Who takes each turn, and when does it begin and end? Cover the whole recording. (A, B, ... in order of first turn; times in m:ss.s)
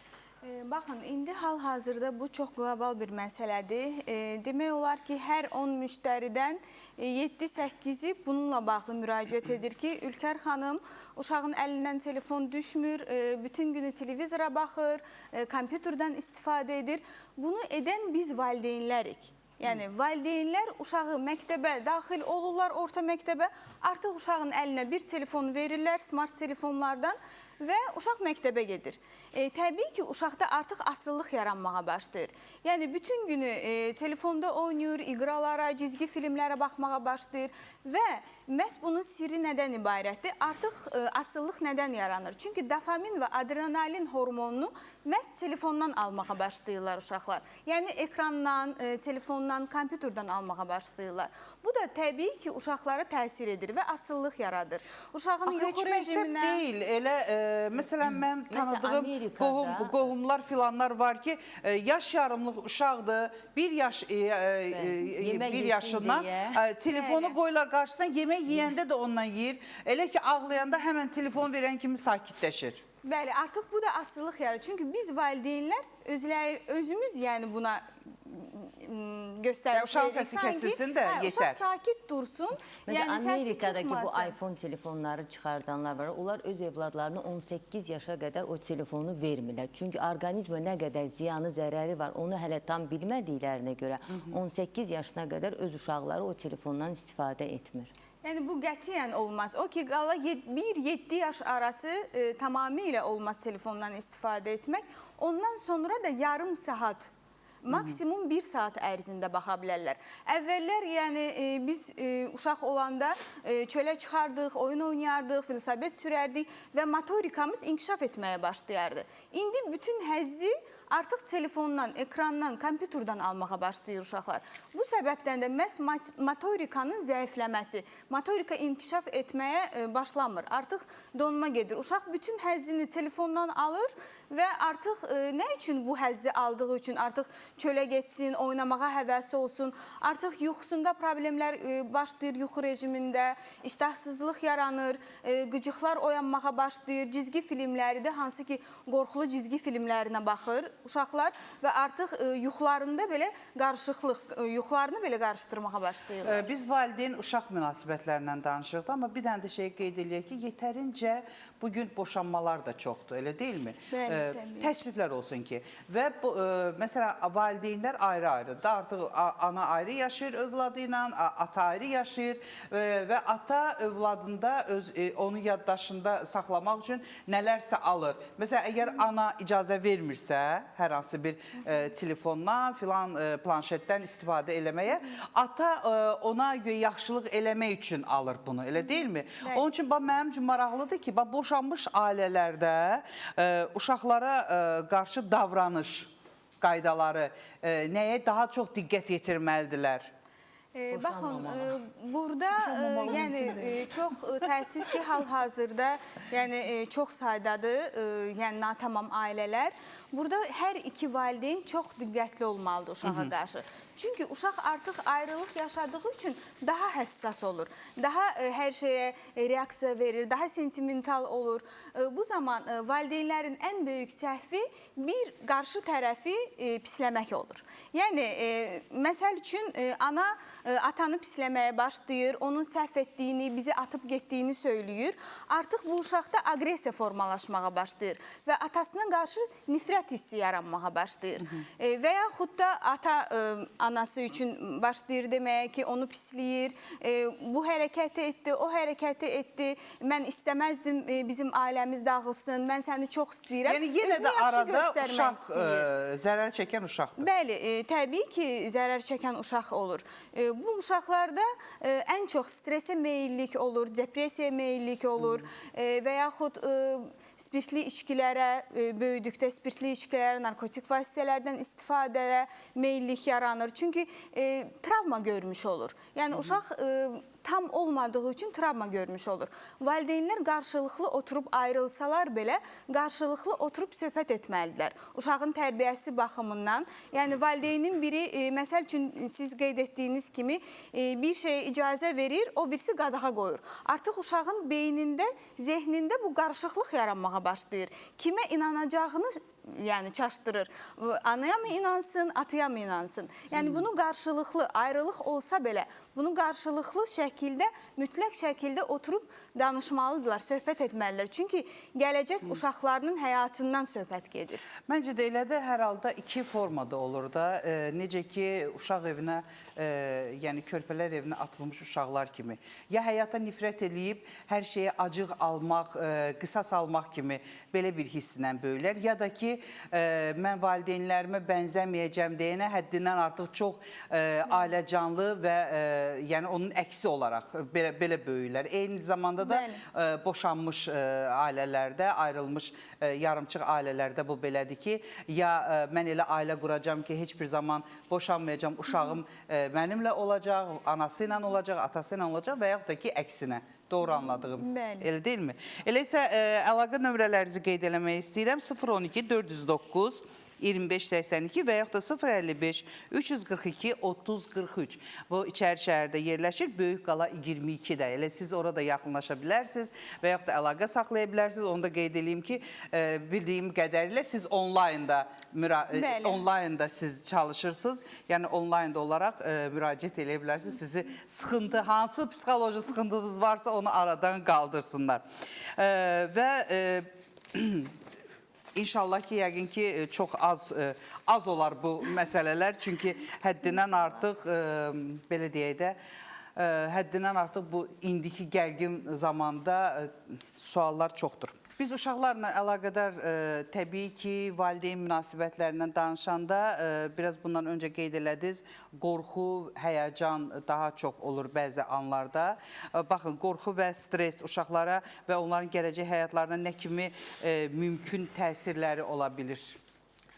0:00.4-0:56.6 A
0:55.5-1:12.8 B
0:58.5-1:00.1 C
1:04.7-1:06.6 C
1:06.9-1:07.4 A
1:13.0-1:24.4 A
1:19.7-1:21.6 B
1:22.9-1:37.9 C
1:34.1-1:34.4 B
1:38.2-1:47.1 A
1:47.6-2:36.5 A
1:47.7-1:48.0 B
2:36.2-3:20.1 B
2:43.9-2:44.7 A
3:09.4-3:09.7 A
3:20.8-4:15.9 A
3:20.9-3:21.8 C
3:22.6-3:23.5 C
3:33.0-3:33.3 B
4:13.6-4:17.2 B
4:17.2-5:14.7 A
5:03.5-5:03.8 B
5:14.9-6:25.2 B
5:39.4-5:39.8 A
5:54.6-5:55.1 A
6:15.9-6:16.4 A
6:25.8-6:27.9 B
6:28.8-6:36.0 B
6:33.8-6:34.1 A
6:36.6-6:59.8 B